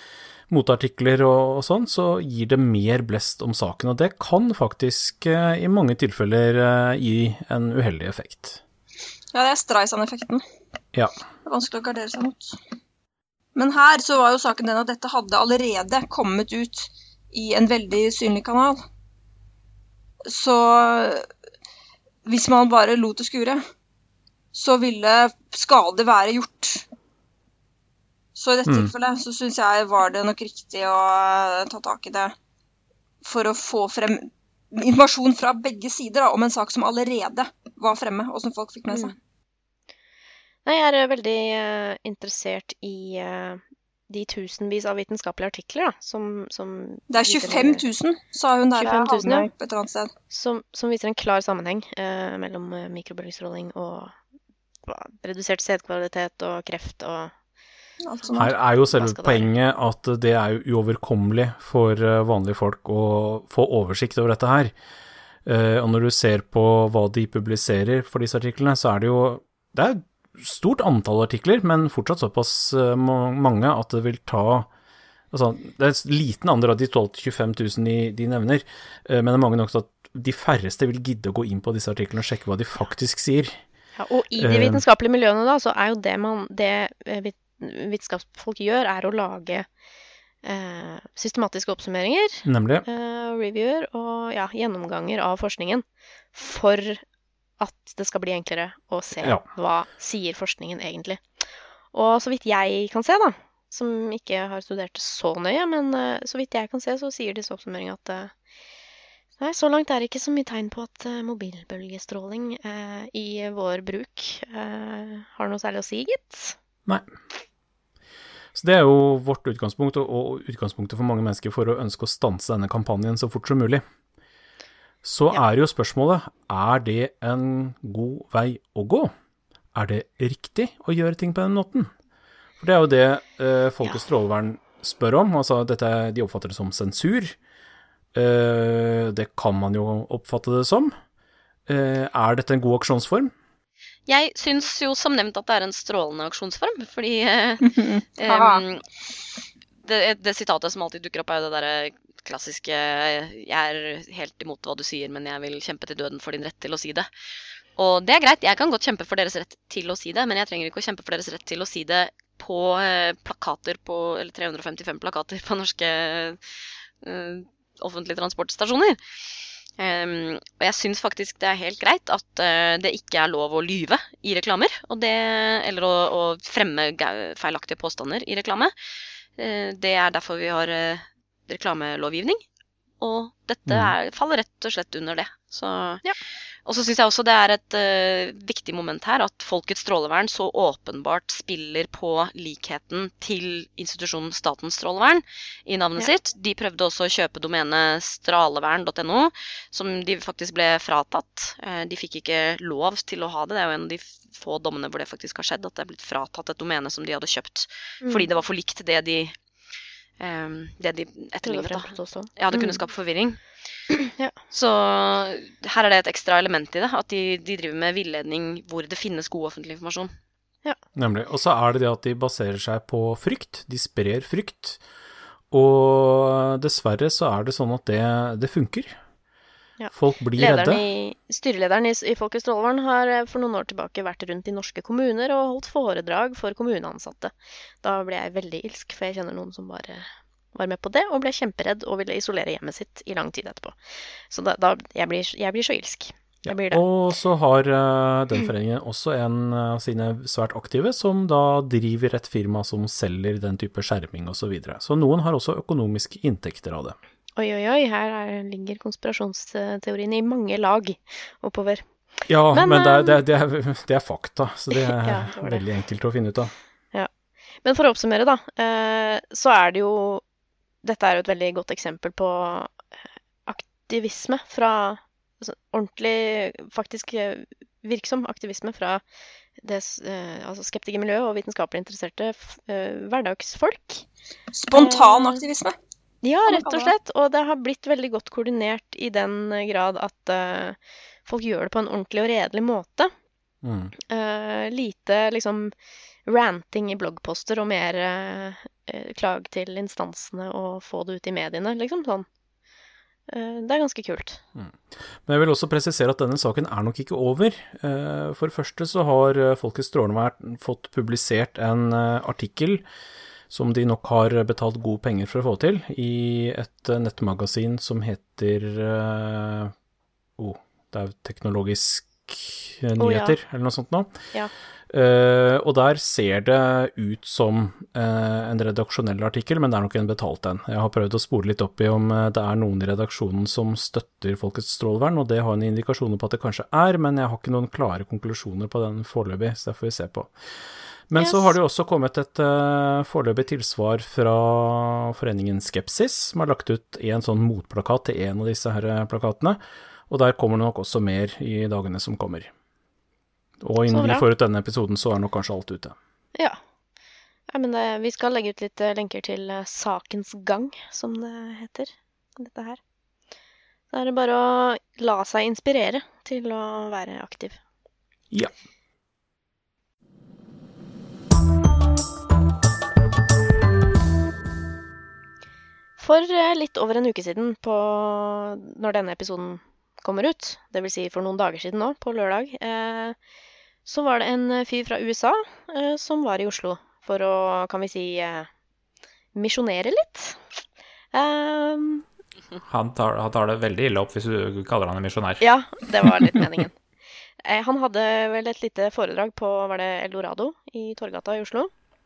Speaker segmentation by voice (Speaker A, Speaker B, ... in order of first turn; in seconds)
Speaker A: 0.5-8.6, 58.4-64.7, 65.4-74.7, 75.3-83.6, 84.3-84.8, 92.4-92.8, 99.2-99.5, 118.5-123.8, 125.0-129.1, 129.7-131.9, 132.6-137.4, 138.1-140.9, 141.7-143.3, 183.7-183.9, 220.9-224.8, 225.5-229.0, 229.9-230.8, 246.4-256.9, 262.3-266.5, 293.6-293.9, 304.6-312.8, 313.5-319.7, 320.4-324.1, 324.9-340.3, 341.1-352.5, 353.6-355.9
Speaker B: 9.3-10.4, 11.4-12.6, 13.5-18.8, 20.3-21.3, 22.2-23.6, 24.5-26.8, 28.3-32.3, 33.2-39.1, 47.1-50.1, 58.0-58.6, 147.6-148.6, 284.5-285.8, 286.5-286.9
Speaker C: 40.6-47.8, 48.8-49.5, 50.3-54.1, 54.9-57.3, 58.8-59.5, 84.0-89.7, 90.4-97.0, 97.6-101.2, 101.9-108.3, 109.4-116.5, 208.0-208.3, 211.4-212.8, 214.0-214.4, 229.8-243.8, 244.3-246.8, 257.4-261.8, 262.5-263.2, 264.7-265.6, 267.6-270.2, 270.8-272.8, 273.5-279.0, 279.6-284.1, 284.7-285.4, 286.2-293.1, 294.1-295.7, 296.2-302.3, 303.3-304.4, 323.0-323.4, 341.2-341.5, 353.9-354.3, 357.5-362.8, 363.9-367.6, 376.0-383.1, 383.9-388.5, 389.3-390.4, 391.1-392.0, 395.4-396.7, 397.4-401.7
Speaker D: 144.1-147.6, 148.2-148.8, 149.8-157.1, 157.8-166.4, 167.0-169.0, 169.8-178.7, 179.4-182.4, 183.0-186.0, 186.6-209.4, 210.2-213.4, 214.5-220.1
Speaker E: 392.6-395.4